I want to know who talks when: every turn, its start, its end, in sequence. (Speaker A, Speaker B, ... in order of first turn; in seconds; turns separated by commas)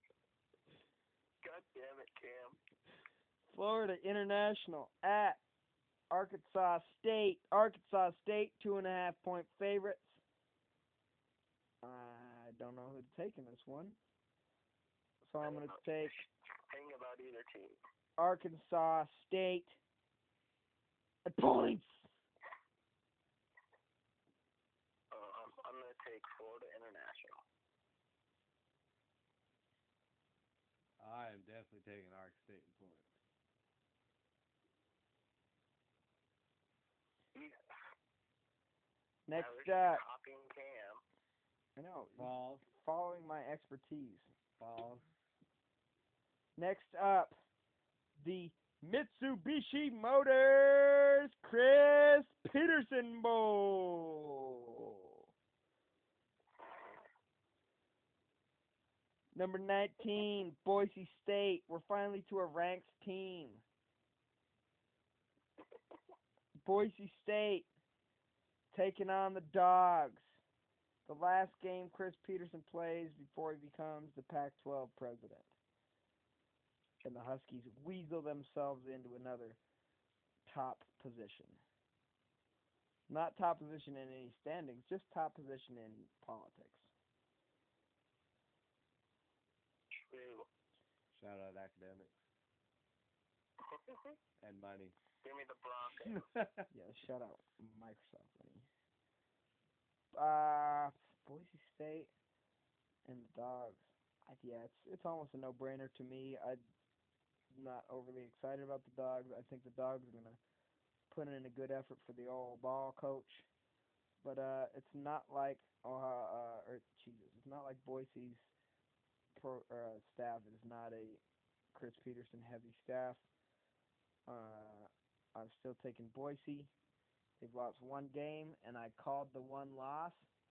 Speaker A: 1.4-2.6, Speaker B: 3.5-5.4, Speaker B: 6.1-10.2, Speaker B: 11.8-14.0, Speaker B: 15.2-16.2, Speaker A: 15.4-17.8, Speaker B: 18.2-19.8, Speaker B: 21.3-22.1, Speaker A: 25.1-27.4, Speaker C: 31.0-33.1, Speaker A: 37.4-37.9, Speaker B: 39.3-40.0, Speaker A: 39.4-41.0, Speaker B: 41.8-44.3, Speaker C: 42.2-42.6, Speaker C: 44.6-45.1, Speaker B: 46.6-47.4, Speaker B: 48.2-54.9, Speaker B: 59.3-63.6, Speaker B: 66.6-67.7, Speaker B: 68.7-70.4, Speaker B: 71.1-75.5, Speaker B: 77.0-79.6, Speaker B: 80.5-81.6, Speaker B: 83.1-86.9, Speaker A: 89.9-90.5, Speaker C: 91.1-92.2, Speaker A: 93.6-94.2, Speaker C: 94.4-95.0, Speaker A: 95.2-96.3, Speaker C: 96.0-96.6, Speaker B: 96.7-98.7, Speaker B: 100.1-102.1, Speaker B: 103.0-106.6, Speaker B: 107.5-110.4, Speaker B: 111.1-113.5, Speaker B: 114.2-118.5, Speaker B: 119.3-121.2, Speaker B: 121.7-123.2, Speaker B: 124.3-126.7, Speaker B: 127.4-130.3